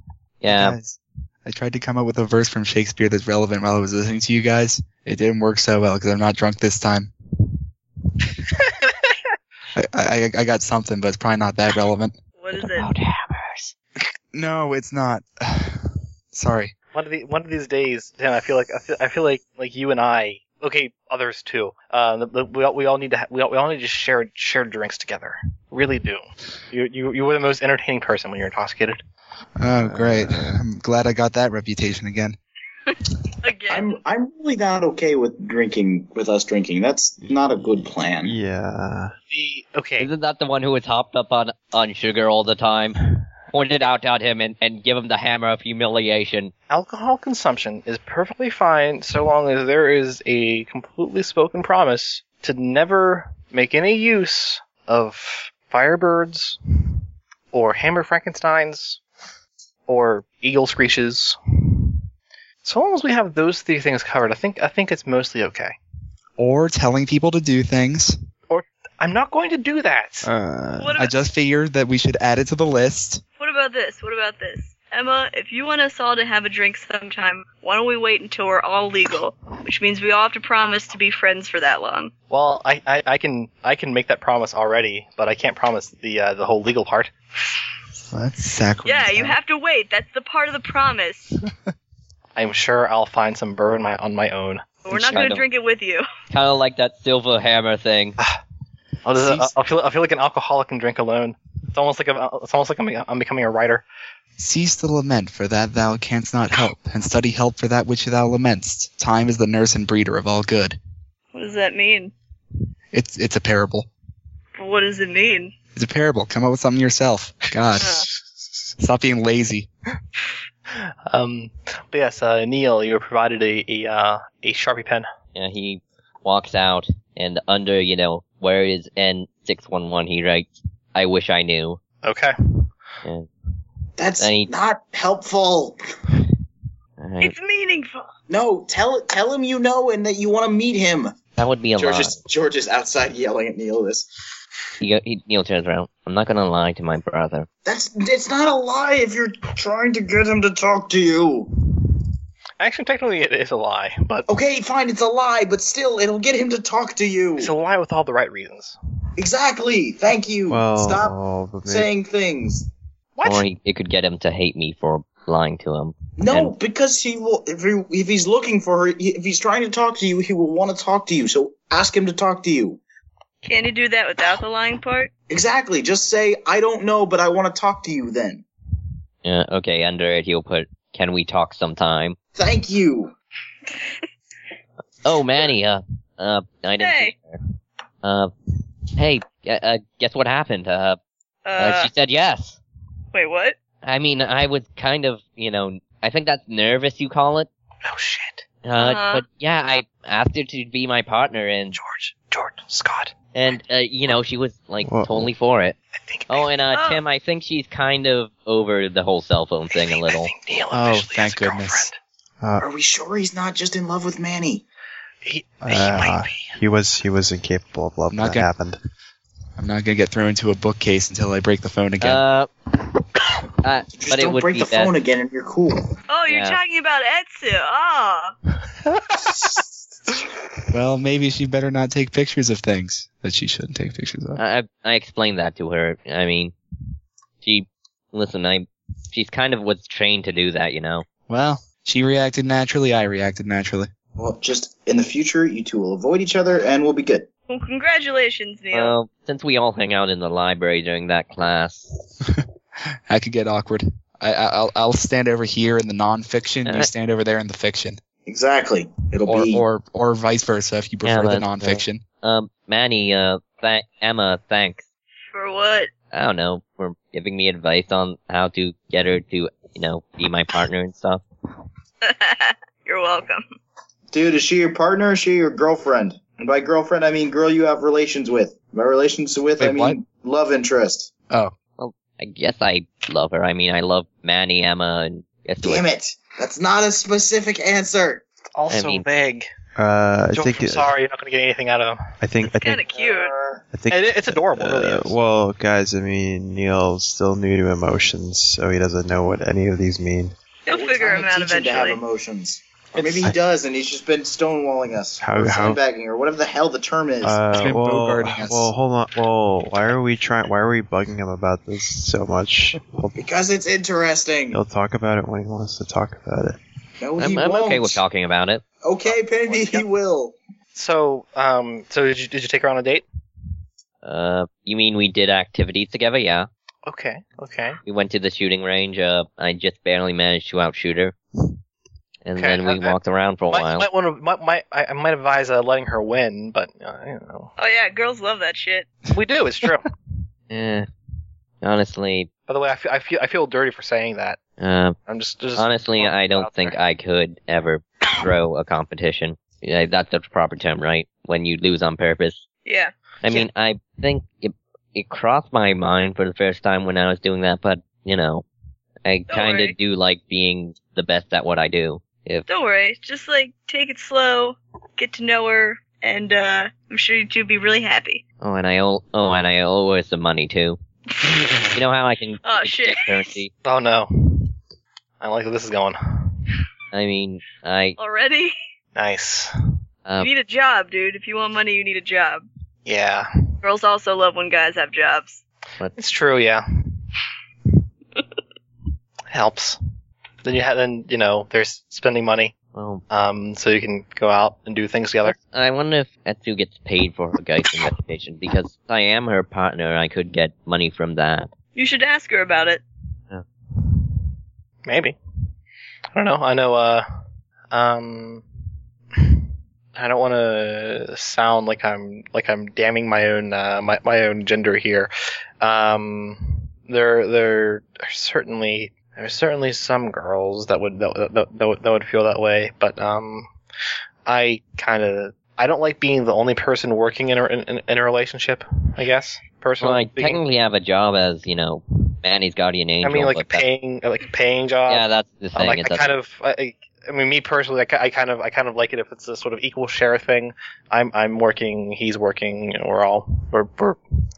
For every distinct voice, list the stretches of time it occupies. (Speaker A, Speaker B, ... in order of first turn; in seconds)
Speaker A: 0.4-0.8, 12.8-13.7, 40.0-46.5, 94.9-95.4, 96.3-98.2, 125.3-131.8, 134.2-134.5, 137.0-137.3, 141.4-142.2, 144.8-147.5, 163.2-166.5, 179.2-182.2, 185.0-187.4, 188.0-188.3, 188.9-191.0, 191.6-192.6, 193.8-197.5, 198.6-201.8, 203.3-205.8, 206.3-210.3, 222.0-222.5, 223.6-224.9, 226.3-226.6, 234.4-236.5, 237.4-241.0, 248.7-252.0, 261.0-264.8, 266.1-271.2, 281.8-285.8, 288.7-289.1, 317.2-318.6, 324.0-326.5, 327.8-331.1, 332.2-333.9, 340.5-340.9, 341.6-342.3, 344.6-345.0, 345.6-352.4, 353.2-358.4, 359.0-362.4, 368.4-370.8, 371.7-373.5, 376.9-378.0, 392.7-393.0, 395.2-401.5, 429.8-433.6, 434.9-436.2
Speaker B: 0.6-7.1, 9.7-12.1, 14.3-16.7, 29.6-32.4, 66.4-68.2, 70.2-73.2, 88.1-89.4, 99.2-99.5, 104.4-110.8, 112.9-113.9, 115.7-118.0, 118.8-119.7, 210.7-211.9, 218.1-218.5, 219.6-222.2, 230.7-234.4, 241.3-243.9, 253.1-258.0, 259.3-262.0, 279.6-280.0, 307.5-308.7
Speaker C: 12.4-12.9, 33.4-33.9, 70.8-71.1, 73.4-82.1, 88.8-91.4, 94.8-96.0, 111.3-112.1, 114.5-115.5, 117.8-118.0, 137.2-138.1, 173.4-175.1, 186.8-187.1, 191.4-191.9, 193.1-193.6, 198.8-199.2, 206.7-207.0, 226.1-228.3, 247.5-248.9, 265.3-265.9, 272.0-273.4, 292.4-293.3, 300.6-302.0, 337.6-338.9, 352.6-353.5, 359.3-359.7, 362.5-368.2, 372.4-373.3, 378.0-378.5, 380.2-382.4, 383.6-385.4, 401.7-402.8
Speaker D: 16.9-29.0, 39.3-40.1, 46.7-56.6, 57.5-59.0, 59.9-61.4, 62.6-65.8, 68.5-70.3, 82.3-87.1, 92.3-94.7, 99.0-103.8, 121.1-125.1, 132.0-132.3, 152.6-154.2, 157.4-158.8, 163.2-163.4, 197.8-198.4, 201.7-203.1, 206.1-206.5, 209.9-212.0, 215.2-216.6, 288.5-289.5, 290.3-292.0, 293.9-295.2, 319.1-319.8, 320.7-323.1, 326.9-327.8, 332.4-333.0, 333.5-337.5, 339.1-339.9, 342.5-344.4, 345.1-346.8, 373.6-374.5, 375.2-376.3, 378.9-379.5, 382.9-383.3, 386.0-386.6, 389.3-389.8, 390.4-392.6, 393.1-395.3, 404.8-405.2, 406.1-407.1, 407.7-408.4, 409.9-415.1, 415.6-423.5, 424.2-430.4, 433.0-444.0
Speaker E: 29.7-30.6, 38.2-39.1, 160.5-161.9, 204.8-205.3, 215.6-218.8, 289.8-290.9, 292.2-292.8, 293.7-300.3, 305.2-305.8, 307.2-313.1, 314.5-316.6
Speaker F: 33.7-38.4, 134.0-135.8, 138.3-141.2, 141.8-144.1, 147.6-151.5, 154.3-157.5, 159.2-162.7, 166.2-172.8, 175.3-178.4, 182.3-183.1, 212.6-214.6, 223.9-225.9, 244.1-247.3, 258.2-259.6, 274.1-281.1, 285.6-288.2, 292.8-293.7, 300.7-307.4, 313.1-314.6, 317.0-318.0, 318.8-320.4